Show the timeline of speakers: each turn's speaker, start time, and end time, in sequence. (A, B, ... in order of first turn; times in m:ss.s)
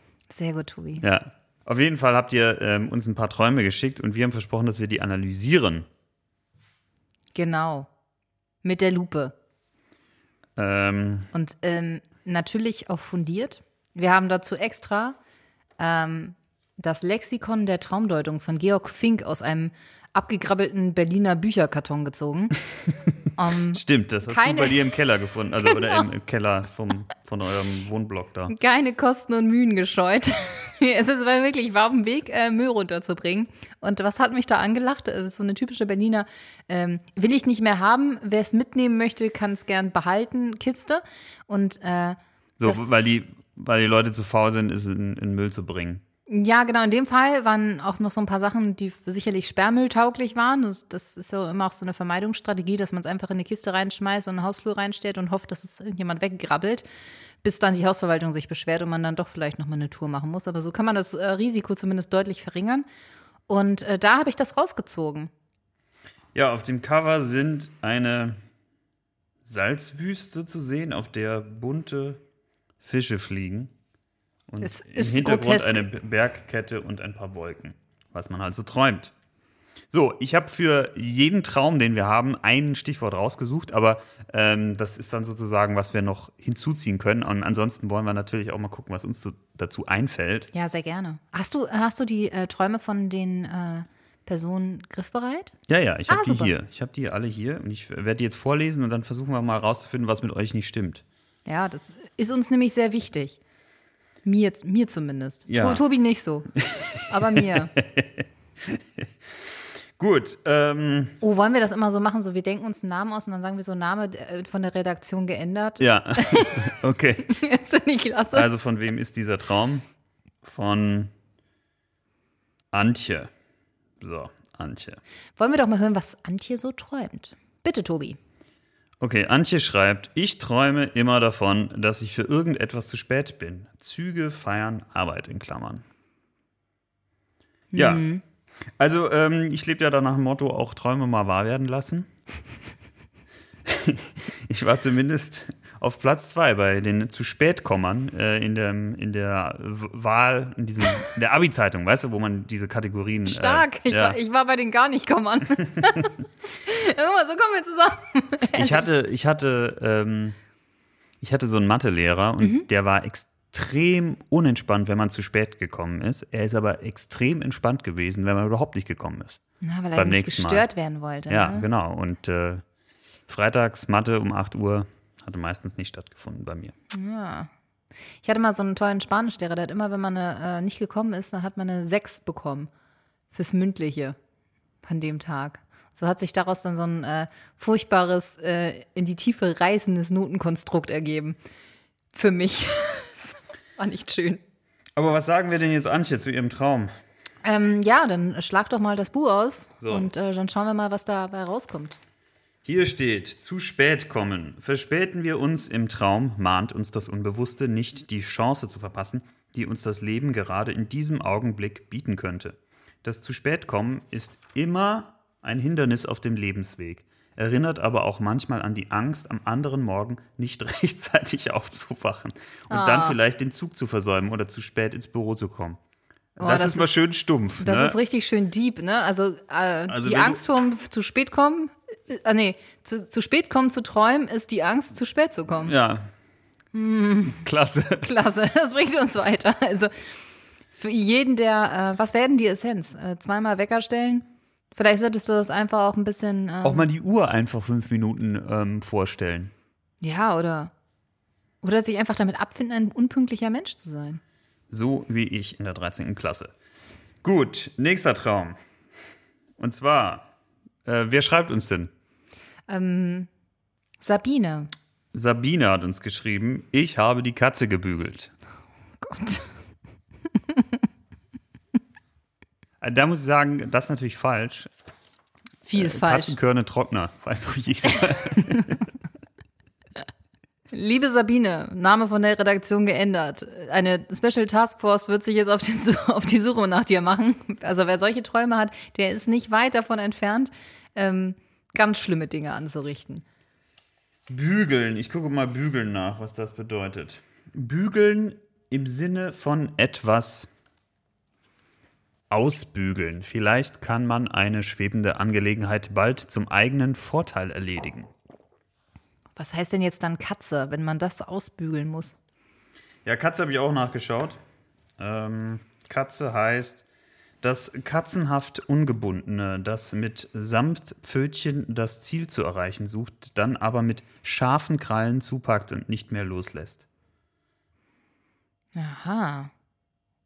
0:00.3-0:01.0 A
0:01.0-0:05.9 B
0:07.4-0:07.9 A
0:08.6-0:09.3 A
0:10.6-0:11.3 B
0:11.3-0:15.2 A
0:15.8-0:22.6 A
0:23.4-0:24.8 A
0:23.7-0:28.5 B
0:25.7-0:26.0 A
0:28.5-0:42.9 A
0:42.6-0:46.0 B
0:46.3-0:56.8 A
0:57.4-1:02.9 A
1:03.5-1:05.3 A
1:06.3-1:08.4 B
1:09.4-1:12.2 B
1:12.8-1:13.7 B
1:14.5-1:19.1 B
1:14.6-1:15.9 A
1:19.9-1:30.5 B
1:30.5-1:35.6 A
1:35.7-1:41.0 B
1:36.1-1:36.5 A
1:41.5-1:43.4 A
1:44.2-1:46.5 A
1:45.5-1:45.8 B
1:46.6-1:49.1 B
1:47.1-1:47.7 A
1:50.0-1:51.2 B
1:51.2-1:56.7 A
1:55.8-1:57.3 B
1:57.3-1:58.5 A
1:58.3-1:59.8 B
2:00.4-2:01.1 B
2:02.7-2:03.3 B
2:04.0-2:05.0 B
2:05.4-2:08.2 A
2:09.0-2:15.8 B
2:17.7-2:18.2 A
2:17.7-2:18.1 B
2:18.8-2:22.1 B
2:23.6-2:34.2 B
2:33.3-2:38.9 A
2:38.6-2:40.4 B
2:41.2-2:49.4 B
2:42.4-2:42.7 A
2:49.6-2:51.7 A
2:50.0-2:50.7 B
2:51.3-2:52.6 B
2:53.3-2:56.7 B
2:56.9-2:57.5 A
2:58.2-3:02.7 A
3:03.3-3:04.2 A
3:04.8-3:11.4 A
3:12.1-3:14.4 A
3:15.0-3:16.9 B
3:17.4-3:22.0 A
3:19.8-3:20.1 B
3:22.6-3:45.8 B
3:42.7-3:43.2 A
3:46.4-3:48.0 B
3:46.4-3:47.0 A
3:47.6-3:55.7 A
3:49.9-3:50.4 B
3:55.6-3:56.1 B
3:56.7-3:57.5 A
3:57.3-3:58.1 B
3:58.0-3:59.9 A
4:00.8-4:06.9 A
4:06.6-4:09.5 B
4:10.0-4:10.7 A
4:11.6-4:14.2 A
4:14.7-4:16.5 B
4:17.2-4:18.6 B
4:19.6-4:20.3 B
4:20.8-4:21.9 B
4:22.7-4:23.3 A
4:24.0-4:24.7 A
4:25.1-4:28.3 B
4:29.0-4:29.5 A
4:32.8-4:34.7 B
4:35.7-4:36.4 A
4:35.8-4:38.9 B
4:40.7-4:53.2 A
4:54.3-5:00.5 B
5:02.3-5:08.1 B
5:09.4-5:12.2 A
5:13.0-5:14.4 B
5:15.0-5:16.8 B
5:17.4-5:26.8 B
5:28.8-5:29.5 A